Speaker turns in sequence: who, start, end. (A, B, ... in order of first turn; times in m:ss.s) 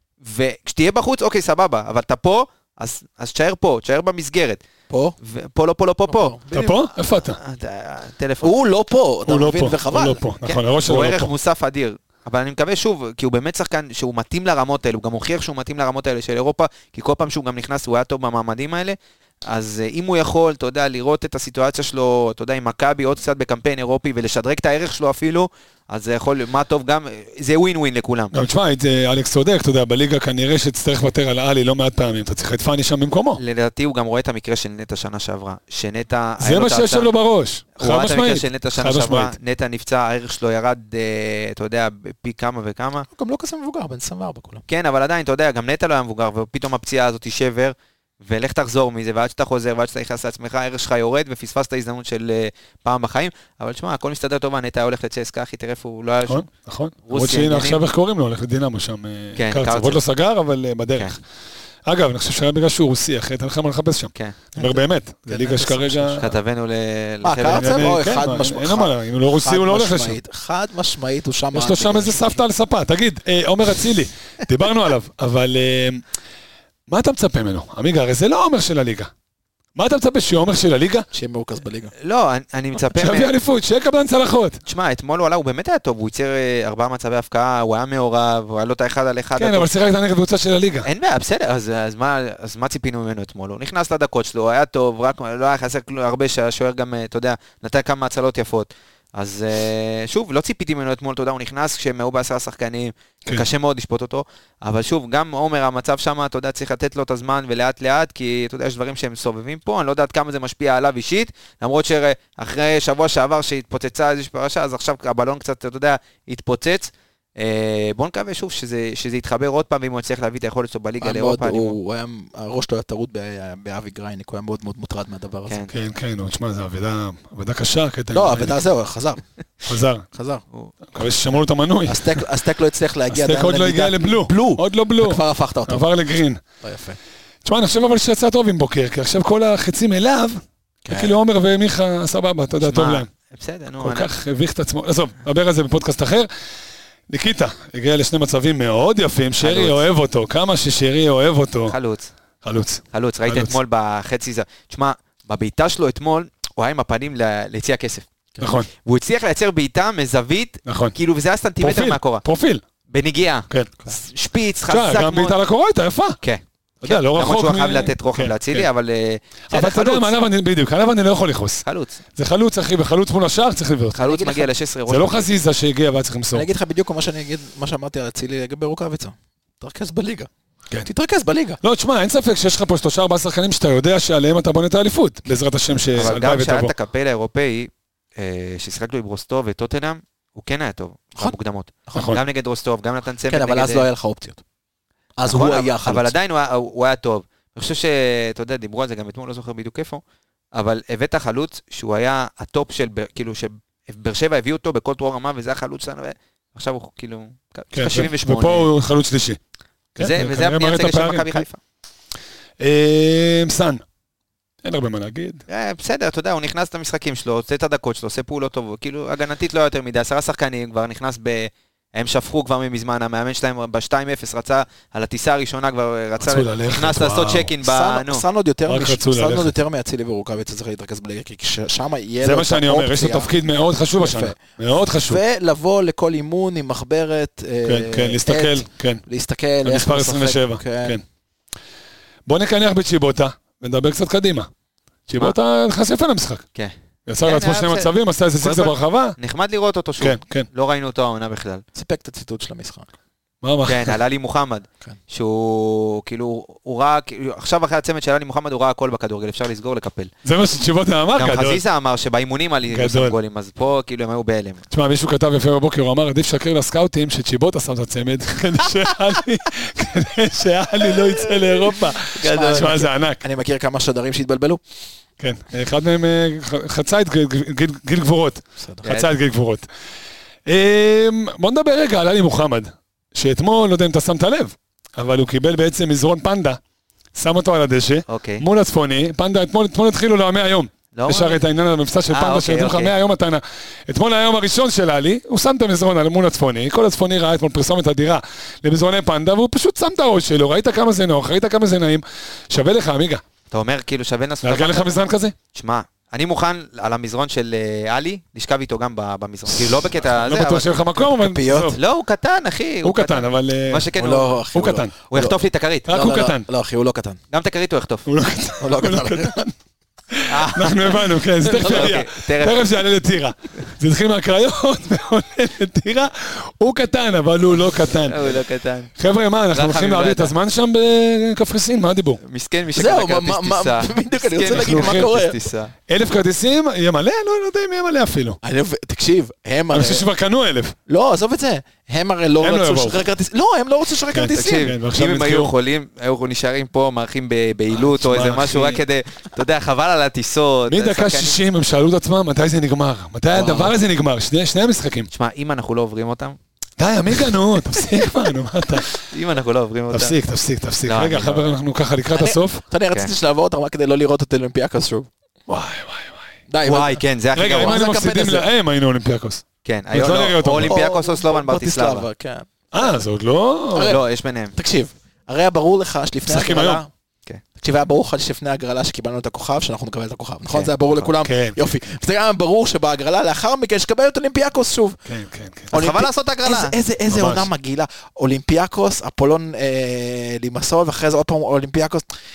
0:00.2-0:04.6 A
0:04.9-0:05.2 B
0:05.2-0:06.4 A
0:06.1-0:06.8 B
0:06.5-0:07.4 C
0:07.2-0:08.5 A
0:08.4-0:10.2 B
0:09.3-0:11.3 C
0:10.4-0:28.4 A
0:28.3-0:33.4 C
0:33.4-0:37.1 A
0:36.4-0:39.3 C
0:37.8-0:43.1 A
0:43.1-0:44.6 B
0:44.7-0:56.5 A
0:56.3-1:01.2 C
0:57.1-0:57.8 A
0:59.4-1:00.0 A
1:01.8-1:06.3 C
1:04.6-1:06.3 B
1:06.2-1:07.9 A
1:07.2-1:12.4 B
1:07.4-1:10.2 C
1:11.5-1:16.0 C
1:16.9-1:19.1 C
1:19.8-1:21.1 C
1:21.1-1:21.9 B
1:22.0-1:23.3 A
1:23.0-1:24.6 C
1:24.7-1:29.7 A
1:29.4-1:30.9 C
1:30.8-2:01.8 A
2:01.0-2:05.6 B
2:05.7-2:08.6 C
2:08.1-2:09.2 B
2:09.7-2:10.1 C
2:10.1-2:10.4 B
2:10.9-2:12.2 C
2:11.9-2:15.8 B
2:13.1-2:16.4 C
2:16.6-2:17.0 B
2:17.4-2:23.1 C
2:20.8-2:21.2 B
2:22.6-2:24.1 A
2:23.8-2:26.3 C
2:27.1-2:31.8 C
2:29.4-2:29.9 A
2:31.7-2:32.1 A
2:32.4-2:33.6 C
2:32.9-2:38.1 A
2:38.4-2:38.7 C
2:38.8-2:42.2 A
2:40.7-2:40.9 C
2:41.6-2:42.6 C
2:42.9-2:45.4 A
2:44.7-2:46.2 C
2:46.2-2:50.1 A
2:46.8-2:48.7 C
2:49.5-2:54.0 C
2:51.7-2:52.0 A
2:54.0-2:55.4 A
2:54.0-2:54.5 B
2:54.9-2:56.5 C
2:56.3-3:01.6 B
3:01.6-3:06.7 C
3:06.0-3:13.9 A
3:11.9-3:12.2 C
3:13.3-3:14.4 B
3:15.2-3:16.1 B
3:15.3-3:20.0 A
3:20.5-3:28.7 A
3:27.7-3:29.4 C
3:30.0-3:31.4 C
3:30.0-3:31.6 A
3:32.6-3:33.8 C
3:34.6-3:35.4 C
3:35.5-3:48.2 A
3:46.2-3:47.5 C
3:47.6-3:53.3 B
3:48.7-3:49.5 C
3:52.2-3:55.2 C
3:54.0-4:01.0 B
3:57.6-3:59.0 C
3:59.6-4:01.0 C
4:02.3-4:04.5 C
4:05.1-4:06.4 C
4:06.6-4:11.6 A
4:07.1-4:09.2 C
4:10.0-4:10.5 C
4:11.8-4:12.9 B
4:13.4-4:14.0 C
4:13.7-4:20.1 A
4:20.2-4:21.6 C
4:21.2-4:24.6 A
4:22.7-4:23.2 C
4:24.7-4:33.2 C
4:32.2-4:34.6 B
4:32.2-4:32.8 A
4:35.2-4:39.7 C
4:38.6-4:38.8 B
4:38.8-4:39.1 A
4:40.5-4:46.6 C
4:47.1-5:03.2 C
4:48.1-4:48.4 A
4:50.9-4:51.4 A
4:52.1-4:52.9 A
5:03.5-5:10.9 A
5:04.4-5:05.4 C
5:10.0-5:11.8 C
5:11.1-5:11.8 B
5:11.8-5:14.4 A
5:12.8-5:13.9 C
5:14.0-5:15.4 B
5:14.5-5:14.9 C
5:15.1-5:15.9 A
5:15.9-5:16.5 C
5:15.9-5:17.2 B
5:17.3-5:18.1 A
5:18.1-5:19.5 C
5:18.6-5:19.4 B
5:20.1-5:28.2 C
5:20.3-5:22.6 A
5:21.7-5:22.0 B
5:28.1-5:28.9 A
5:29.0-5:32.2 C
5:29.5-5:30.3 A
5:32.2-5:35.7 A
5:32.7-5:35.4 B
5:34.5-5:35.1 C
5:35.9-5:38.4 C
5:38.4-5:40.1 B
5:39.7-5:40.8 C
5:40.9-5:44.7 B
5:42.4-5:43.0 C
5:44.1-5:45.5 C
5:44.3-5:51.4 A
5:47.7-5:48.8 C
5:50.7-5:55.1 C
5:53.3-5:53.8 B
5:55.1-5:56.4 A
5:56.8-5:59.0 C
5:58.9-6:00.2 A
5:59.9-6:02.6 C
6:00.8-6:01.6 A
6:02.1-6:05.1 B
6:05.5-6:06.3 C
6:06.5-6:08.5 B
6:06.6-6:07.8 A
6:07.4-6:10.8 C
6:09.6-6:12.1 A
6:10.5-6:12.9 B
6:12.7-6:14.0 C
6:13.7-6:16.9 B
6:13.9-6:14.6 A
6:16.3-6:16.8 C
6:17.6-6:25.0 B
6:20.9-6:21.7 C
6:25.1-6:25.7 C
6:25.7-6:26.8 A
6:25.7-6:32.1 B
6:27.1-6:27.5 C